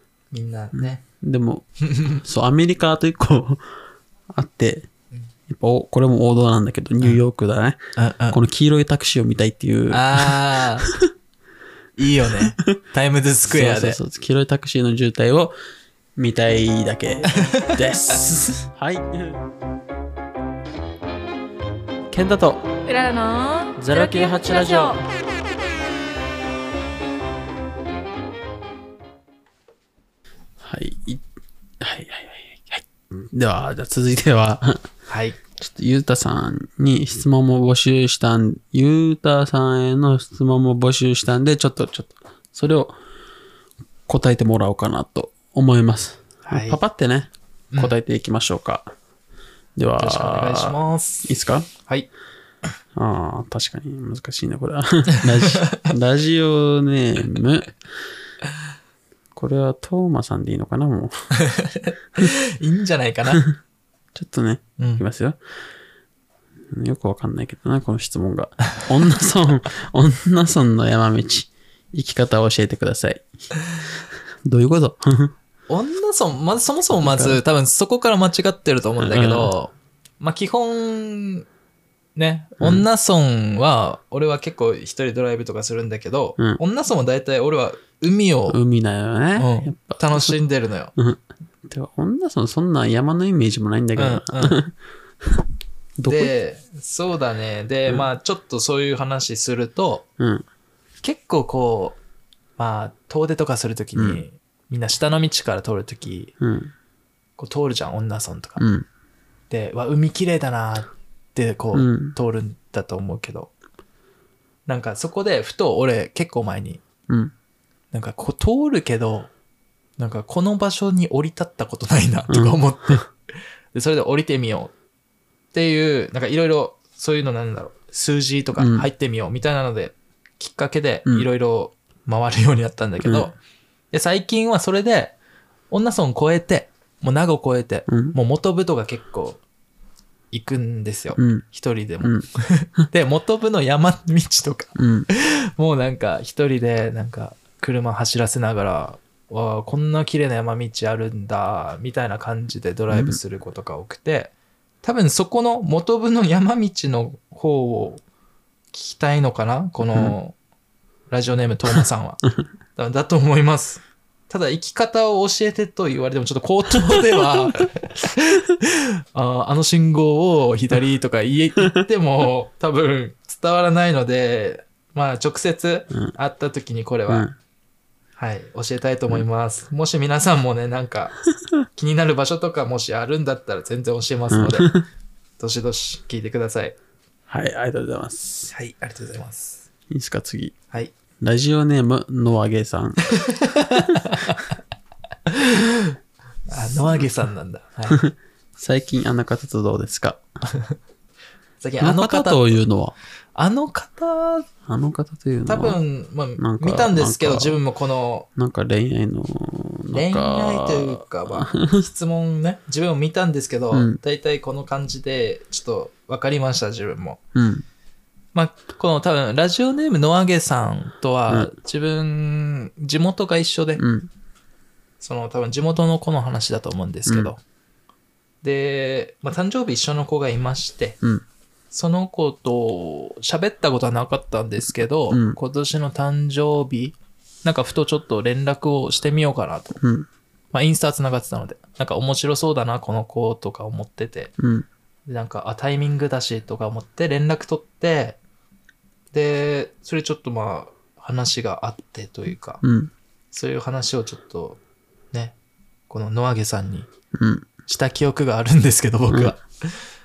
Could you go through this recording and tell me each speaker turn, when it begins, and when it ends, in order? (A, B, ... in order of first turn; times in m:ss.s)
0:00.3-0:01.0 A
0:00.8-0:01.7 B
0:01.8-0:02.2 A
0:02.2-0:03.6 B
0:04.3-0:04.9 B
0:05.5-0:07.8 B
0:08.0-0:08.4 A
0:08.3-0:11.0 B
0:09.9-0:10.9 A
0:12.0-0:14.0 A
0:13.5-0:15.6 B
0:16.2-0:19.4 B
0:17.3-0:17.9 A
0:22.1-0:22.7 B
0:22.9-0:25.0 C
0:23.8-0:25.0 B
0:30.6-0:31.2 B
0:31.8-0:34.9 B
0:35.1-0:35.4 A
0:35.6-0:43.0 B
0:44.1-0:48.9 B
0:46.5-0:46.8 A
0:49.8-0:51.7 B
0:50.0-0:51.3 A
0:53.0-0:57.8 B
0:55.2-0:55.9 A
0:59.4-1:01.3 B
1:01.4-1:03.4 A
1:04.2-1:05.4 B
1:04.8-1:05.0 A
1:06.7-1:13.3 B
1:14.4-1:15.3 B
1:15.7-1:21.5 A
1:17.0-1:17.4 B
1:19.0-1:19.5 B
1:22.2-1:28.6 A
1:22.6-1:22.9 B
1:28.5-1:30.4 B
1:29.4-1:30.9 A
1:31.0-1:34.8 B
1:34.0-1:34.6 A
1:36.0-1:36.3 B
1:36.1-1:40.1 A
1:40.2-1:40.5 B
1:41.0-1:42.0 A
1:42.6-1:46.3 A
1:44.0-1:44.2 B
1:46.4-1:46.7 B
1:47.4-1:48.6 A
1:48.6-1:48.9 B
1:49.5-1:53.5 A
1:51.7-1:52.2 B
1:54.7-1:56.8 A
1:57.9-1:59.3 A
2:00.0-2:03.1 A
2:02.3-2:03.1 B
2:03.7-2:04.7 A
2:05.5-2:13.4 A
2:08.6-2:08.9 B
2:13.0-2:13.3 B
2:13.9-2:15.2 A
2:15.7-2:19.4 A
2:17.9-2:18.2 B
2:20.3-2:34.3 A
2:21.2-2:21.4 B
2:24.8-2:25.1 B
2:32.9-2:33.2 B
2:34.8-2:38.0 A
2:38.7-2:40.4 A
2:41.1-2:42.2 A
2:42.8-2:57.3 A
2:57.1-2:57.4 B
2:58.2-3:01.2 A
3:01.8-3:04.8 A
3:04.3-3:04.8 B
3:05.4-3:06.8 A
3:07.3-3:08.5 B
3:08.5-3:09.6 A
3:09.9-3:10.6 B
3:11.2-3:13.0 B
3:13.2-3:14.4 A
3:15.3-3:16.0 A
3:16.5-3:18.0 A
3:17.9-3:20.2 B
3:21.6-3:22.5 A
3:21.8-3:23.0 B
3:23.4-3:24.5 A
3:24.7-3:25.8 B
3:25.5-3:28.3 A
3:26.4-3:27.6 B
3:28.4-3:31.8 B
3:29.9-3:37.2 A
3:33.7-3:34.0 B
3:37.4-3:37.6 B
3:38.4-3:43.8 A
3:43.8-3:44.1 B
3:45.0-3:47.4 A
3:47.1-3:47.3 B
3:48.4-3:51.0 A
3:51.7-3:59.8 A
3:55.1-3:55.4 B
3:59.8-4:00.1 B
4:00.5-4:04.3 A
4:04.4-4:04.7 B
4:05.1-4:08.2 A
4:09.1-4:12.6 A
4:12.6-4:12.9 B
4:13.3-4:14.6 A
4:15.9-4:16.9 A
4:17.2-4:17.5 B
4:17.7-4:19.8 A